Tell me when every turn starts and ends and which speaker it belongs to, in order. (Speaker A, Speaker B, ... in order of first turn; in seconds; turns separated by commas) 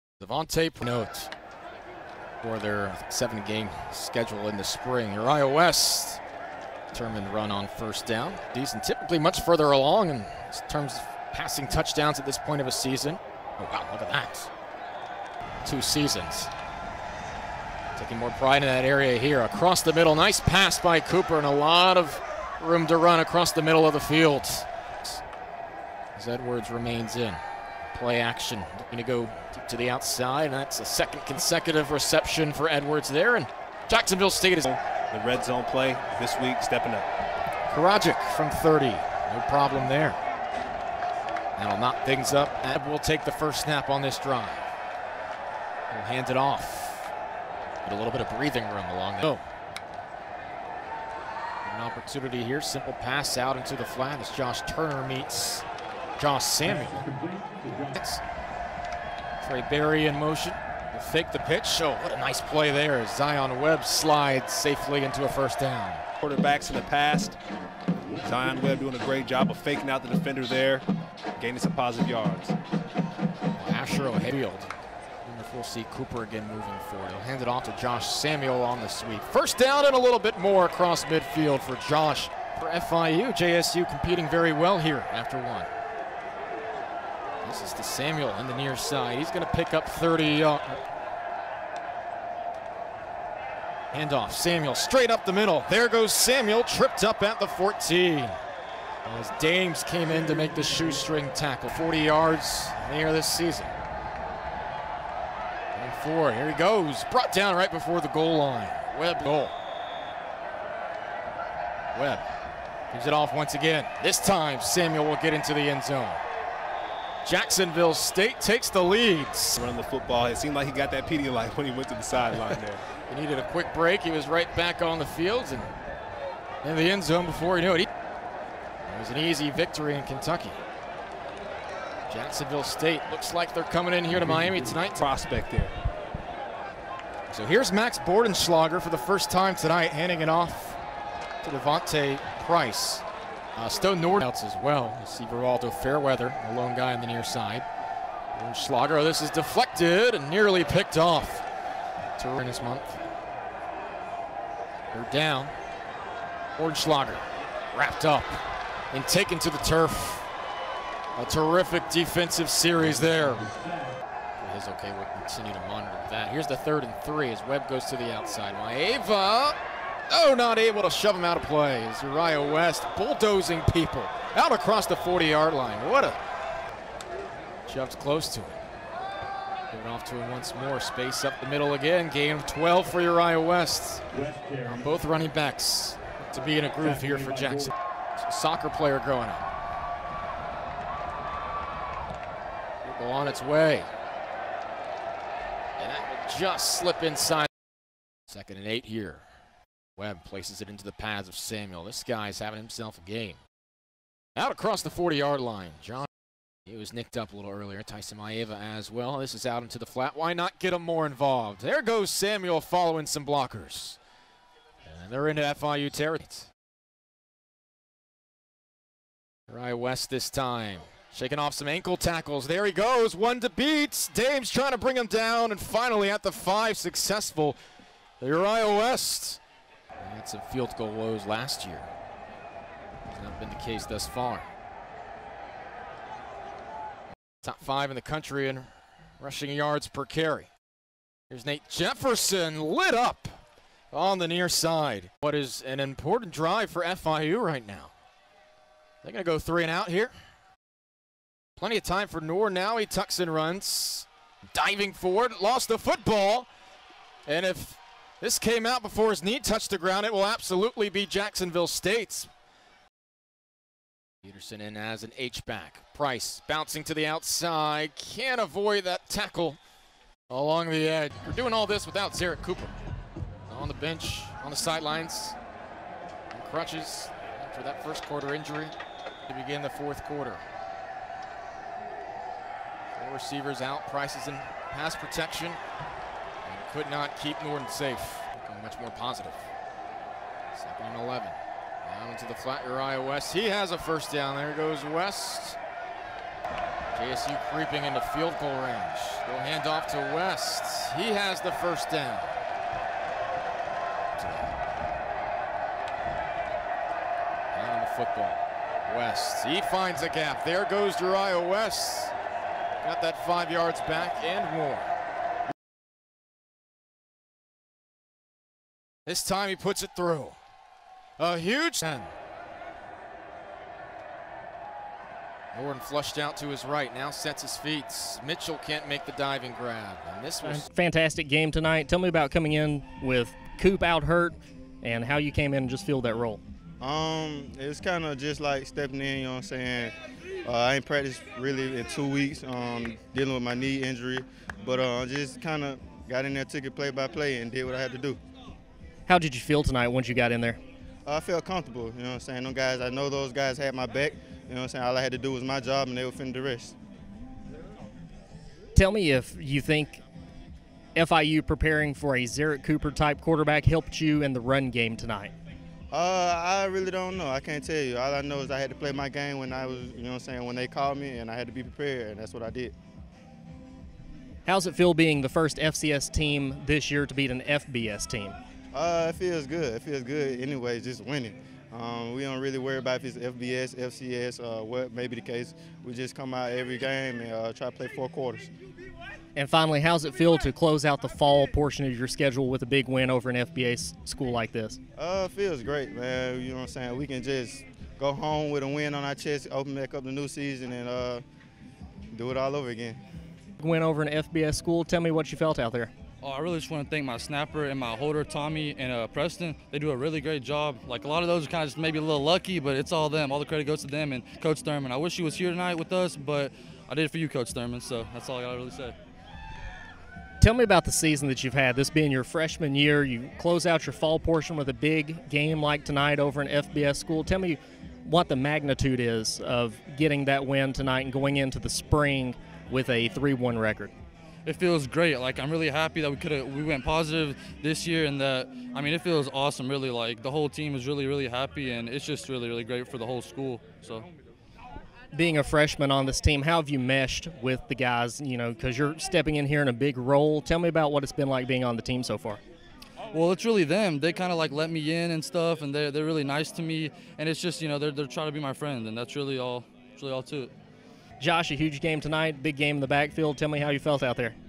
Speaker A: 0.2-1.3, Speaker A: 2.4-6.2, Speaker A: 6.9-14.5, Speaker A: 15.6-16.5, Speaker A: 17.9-25.2, Speaker A: 26.1-34.7, Speaker B: 34.6-37.1, Speaker A: 37.7-40.2, Speaker A: 41.6-44.7, Speaker A: 45.9-47.1, Speaker A: 47.8-49.4, Speaker A: 51.6-55.6, Speaker A: 56.2-57.1, Speaker A: 57.7-58.2, Speaker A: 59.4-66.0, Speaker B: 66.2-67.4, Speaker B: 68.0-70.8, Speaker B: 71.4-72.5, Speaker A: 73.5-74.7, Speaker A: 75.2-85.7, Speaker A: 87.4-90.8, Speaker A: 93.9-98.4, Speaker A: 99.0-103.7, Speaker A: 105.7-109.5, Speaker A: 111.9-112.3, Speaker A: 112.9-116.2, Speaker A: 117.2-119.6, Speaker B: 119.5-122.8, Speaker A: 123.1-125.7, Speaker A: 126.6-127.9, Speaker A: 128.9-130.6, Speaker A: 132.1-135.1, Speaker B: 134.2-135.7, Speaker A: 137.3-140.8, Speaker A: 141.4-143.0, Speaker A: 143.6-147.7, Speaker A: 148.3-151.4, Speaker A: 152.2-153.0, Speaker A: 154.9-155.5, Speaker A: 156.6-158.4, Speaker A: 158.9-160.3, Speaker A: 161.2-163.5, Speaker A: 164.4-176.2, Speaker A: 177.7-178.6, Speaker A: 179.7-189.5, Speaker A: 192.8-193.9, Speaker A: 195.8-197.5, Speaker A: 198.3-199.2, Speaker A: 200.0-203.4, Speaker A: 204.3-206.1, Speaker A: 206.7-214.0, Speaker A: 214.8-216.5, Speaker A: 219.5-227.6, Speaker A: 228.2-229.4, Speaker A: 230.0-231.9, Speaker A: 233.1-234.5, Speaker A: 237.4-240.5, Speaker A: 241.3-243.3, Speaker A: 243.9-247.9, Speaker A: 249.0-250.1, Speaker A: 251.6-256.5, Speaker A: 257.3-262.3, Speaker A: 264.2-269.6, Speaker A: 270.3-272.7, Speaker A: 273.5-275.4, Speaker A: 276.3-278.7, Speaker A: 279.3-280.4, Speaker A: 282.9-285.6, Speaker A: 286.4-289.5, Speaker A: 290.5-295.6, Speaker A: 296.9-302.3, Speaker A: 304.1-304.6, Speaker A: 307.5-312.1, Speaker A: 312.8-314.9, Speaker A: 319.1-320.4, Speaker A: 321.2-322.1, Speaker A: 325.5-330.7, Speaker C: 330.4-336.4, Speaker D: 336.8-339.9, Speaker D: 340.4-348.2, Speaker C: 349.1-350.6, Speaker D: 351.1-356.7, Speaker C: 358.7-360.0, Speaker C: 360.9-365.3, Speaker D: 365.9-372.7, Speaker C: 374.4-378.3, Speaker D: 378.7-388.5, Speaker C: 389.4-394.8, Speaker D: 394.9-401.2, Speaker D: 402.1-403.0, Speaker C: 403.6-405.9, Speaker E: 406.2-418.9, Speaker C: 420.4-433.9, Speaker E: 434.4-444.1, Speaker C: 445.1-452.4, Speaker E: 453.1-460.5, Speaker C: 461.2-464.3